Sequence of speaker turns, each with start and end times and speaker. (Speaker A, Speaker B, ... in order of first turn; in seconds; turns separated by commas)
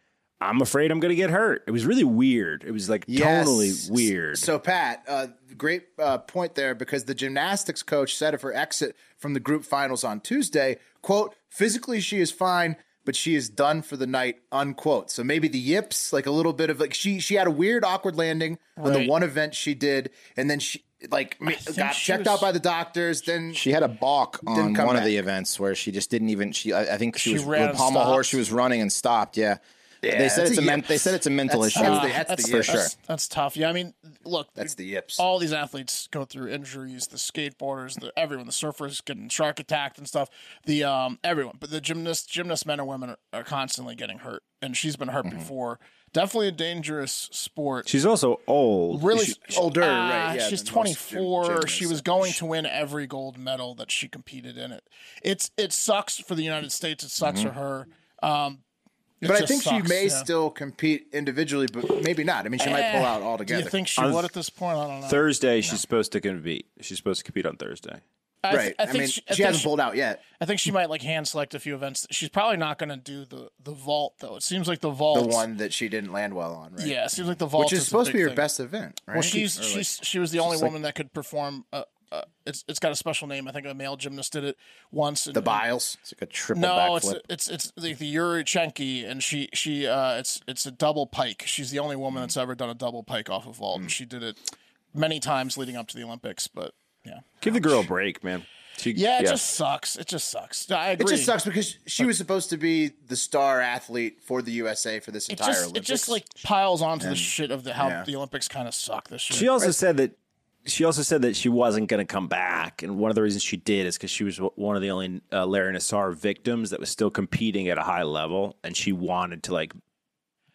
Speaker A: 0.4-4.5, Speaker B: 3.1-23.6, Speaker C: 18.8-19.1, Speaker C: 21.5-22.5, Speaker D: 23.5-32.9, Speaker B: 24.5-25.1, Speaker C: 27.1-28.4, Speaker B: 30.0-32.9, Speaker C: 31.7-47.9, Speaker B: 34.6-35.2, Speaker A: 47.9-49.4, Speaker C: 48.9-58.6, Speaker B: 49.5-52.4, Speaker D: 57.2-57.5, Speaker C: 59.2-60.3, Speaker B: 59.2-63.8, Speaker C: 62.6-65.2, Speaker A: 64.0-64.3, Speaker A: 65.1-68.0, Speaker C: 68.4-69.7, Speaker B: 68.5-70.2, Speaker C: 70.3-75.4, Speaker B: 75.1-77.0, Speaker C: 76.8-78.4, Speaker B: 77.6-79.9, Speaker C: 79.1-85.7, Speaker B: 80.4-80.7, Speaker B: 85.3-86.0, Speaker D: 86.0-87.2, Speaker C: 86.5-94.4, Speaker C: 94.9-97.3, Speaker A: 97.4-99.4, Speaker C: 98.9-101.3, Speaker B: 101.0-106.2, Speaker C: 105.3-109.5, Speaker B: 107.0-108.1, Speaker A: 109.3-110.2, Speaker A: 110.7-119.7